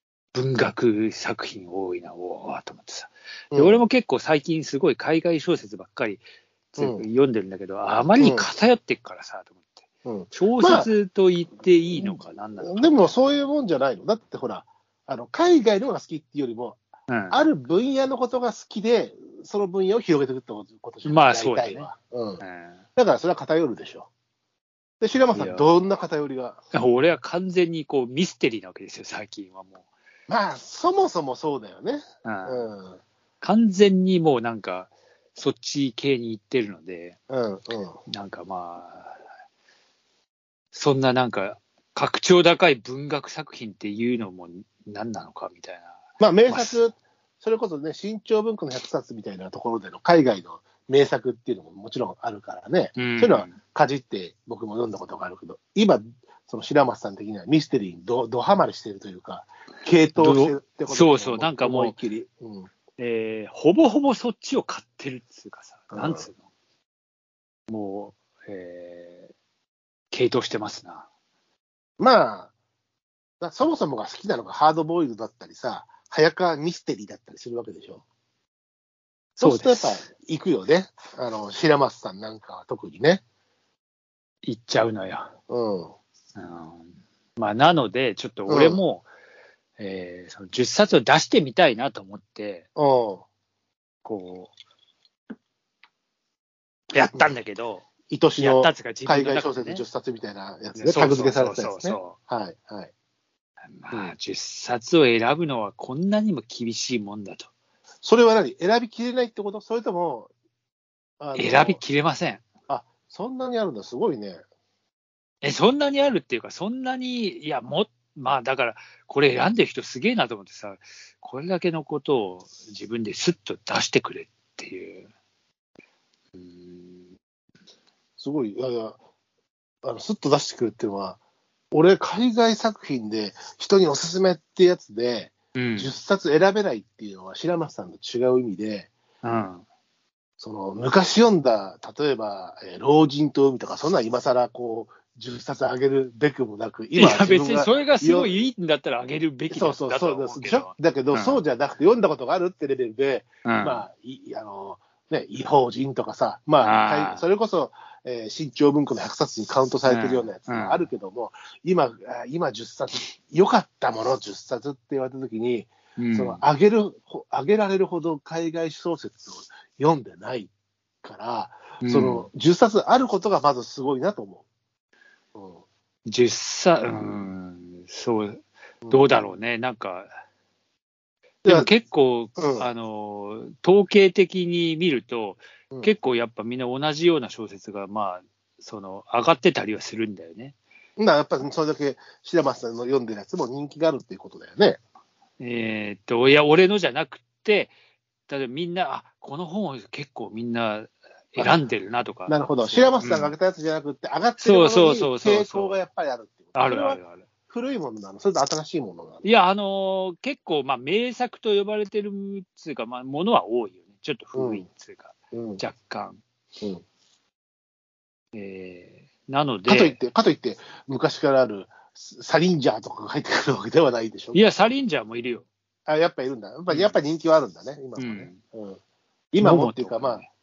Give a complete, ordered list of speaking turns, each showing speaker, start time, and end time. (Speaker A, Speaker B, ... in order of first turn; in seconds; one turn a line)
Speaker A: 0.3-9.8
Speaker B: 3.5-3.8
Speaker B: 6.8-7.1
Speaker B: 8.2-8.5
Speaker B: 10.1-10.9
Speaker A: 10.3-13.3
Speaker B: 12.0-16.8
Speaker A: 17.1-17.4
Speaker B: 17.3-22.4
Speaker A: 21.0-21.9
Speaker A: 22.4-22.8
Speaker B: 23.0-24.1
Speaker B: 25.0-26.6
Speaker A: 25.3-25.7
Speaker A: 26.7-29.9
Speaker B: 30.3-33.0
Speaker A: 32.2-32.7
Speaker A: 33.4-37.2
Speaker B: 37.3-38.0
Speaker A: 38.1-39.2
Speaker A: 40.7-46.0
Speaker B: 46.2-62.7
Speaker A: 46.5-46.8
Speaker A: 53.0-53.6
Speaker A: 60.2-62.0
Speaker A: 63.0-66.4
Speaker B: 65.9-66.2
Speaker A: 67.7-69.3
Speaker A: 70.1-71.0
Speaker B: 72.0-72.5
Speaker B: 73.4-78.0
Speaker B: 79.4-83.2
Speaker A: 79.4-80.1
Speaker A: 84.4-85.3
Speaker B: 85.5-85.9
Speaker A: 86.4-86.9
Speaker A: 87.4-89.1
Speaker B: 88.5-88.8
Speaker A: 89.8-92.7
Speaker B: 92.8-93.2
Speaker A: 94.0-94.5
Speaker A: 96.9-97.9
Speaker B: 97.0-97.3
Speaker B: 98.1-102.9
Speaker A: 98.4-99.8
Speaker A: 100.8-102.2
Speaker A: 103.7-107.5
Speaker B: 108.0-110.3
Speaker B: 111.2-111.8
Speaker A: 111.3-112.4
Speaker B: 112.7-114.4
Speaker A: 115.4-125.1
Speaker A: 126.4-127.1
Speaker B: 128.2-129.0
Speaker B: 129.8-131.2
Speaker B: 131.7-138.9
Speaker A: 135.6-135.9
Speaker A: 139.2-139.6
Speaker B: 140.4-148.3
Speaker A: 147.0-151.4
Speaker B: 149.5-170.5
Speaker A: 153.4-153.8
Speaker A: 156.6-157.2
Speaker A: 159.9-160.9
Speaker A: 166.0-166.4
Speaker B: 171.0-174.4
Speaker A: 171.8-172.3
Speaker B: 175.3-175.6
Speaker A: 176.1-180.2
Speaker B: 178.8-179.3
Speaker B: 181.4-181.7
Speaker A: 181.4-190.6
Speaker B: 182.4-182.7
Speaker B: 191.0-194.8
Speaker A: 195.4-197.7
Speaker A: 198.3-203.3
Speaker B: 201.4-201.6
Speaker B: 202.3-209.3
Speaker A: 204.4-205.8
Speaker A: 206.6-207.2
Speaker A: 209.2-216.2
Speaker B: 214.3-214.7
Speaker B: 215.3-215.6
Speaker A: 218.3-220.0
Speaker B: 219.7-224.4
Speaker A: 224.3-225.5
Speaker B: 225.9-228.8
Speaker A: 226.7-227.0
Speaker A: 228.0-228.4
Speaker B: 229.3-230.2
Speaker A: 229.4-230.3